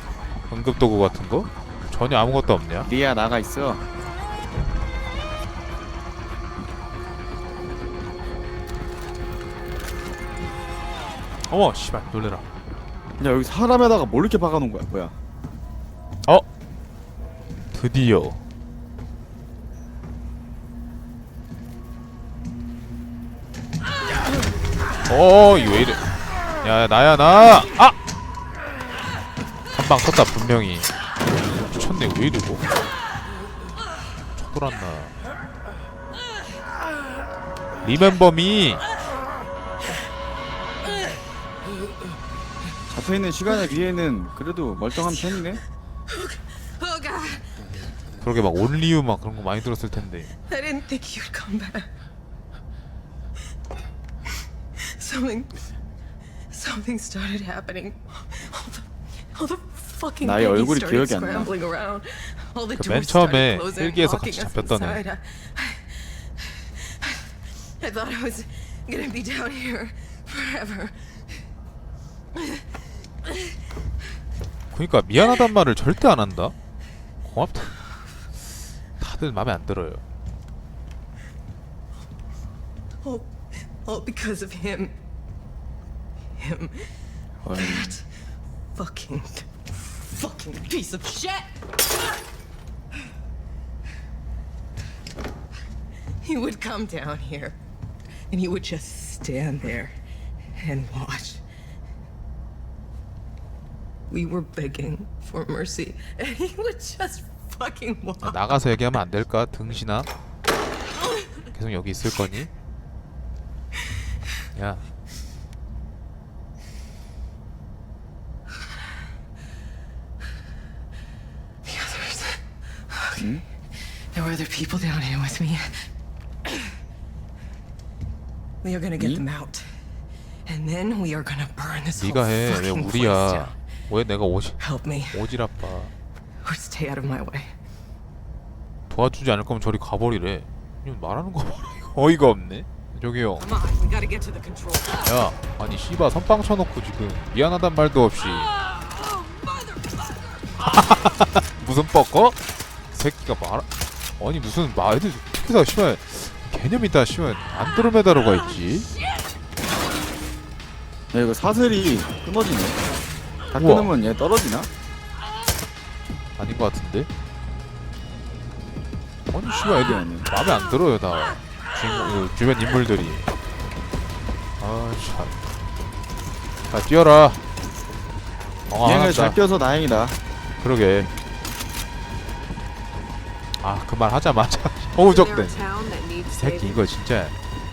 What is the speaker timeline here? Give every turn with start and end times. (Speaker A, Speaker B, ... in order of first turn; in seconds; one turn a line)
Speaker A: 0.5-2.9
Speaker B: 2.8-3.8
Speaker A: 11.5-12.4
Speaker B: 13.2-15.1
Speaker A: 17.7-18.4
Speaker A: 25.1-28.0
Speaker A: 29.7-30.9
Speaker A: 31.7-32.6
Speaker A: 34.4-35.1
Speaker A: 37.8-38.8
Speaker B: 42.9-45.6
Speaker C: 46.1-47.6
Speaker A: 48.2-50.3
Speaker C: 50.4-51.9
Speaker C: 54.8-55.6
Speaker C: 56.5-71.4
Speaker B: 60.2-61.5
Speaker A: 62.8-65.0
Speaker C: 72.4-72.6
Speaker A: 74.7-76.5
Speaker A: 77.2-77.7
Speaker A: 79.0-80.0
Speaker C: 83.0-85.0
Speaker C: 86.4-86.9
Speaker B: 87.4-88.0
Speaker C: 87.5-88.1
Speaker C: 88.8-91.5
Speaker C: 96.2-97.6
Speaker C: 98.3-99.9
Speaker C: 100.6-101.4
Speaker C: 104.1-108.5
Speaker A: 108.2-110.1
Speaker A: 111.5-112.5
Speaker A: 114.5-114.8
Speaker C: 121.6-125.9
Speaker B: 123.2-123.4
Speaker C: 128.6-129.7
Speaker B: 129.0-129.2
Speaker C: 130.5-133.6
Speaker A: 132.0-135.9
Speaker C: 134.6-135.2
Speaker C: 136.4-137.5
Speaker A: 138.9-143.5
Speaker C: 143.4-145.1
Speaker A: 145.1-148.5
Speaker C: 149.0-150.2
Speaker A: 150.6-152.4
Speaker A: 152.9-153.7
Speaker A: 154.2-158.9
Speaker B: 161.1-162.8
Speaker B: 163.5-164.7
Speaker A: 163.6-163.9
Speaker A: 166.4-167.1
Speaker A: 169.3-173.3
Speaker B: 169.7-170.3
Speaker A: 174.6-175.3
Speaker A: 176.7-177.4
Speaker A: 178.7-179.4
Speaker B: 178.8-180.2
Speaker A: 180.6-181.1
Speaker A: 183.6-185.7
Speaker C: 185.1-186.8
Speaker A: 186.3-187.3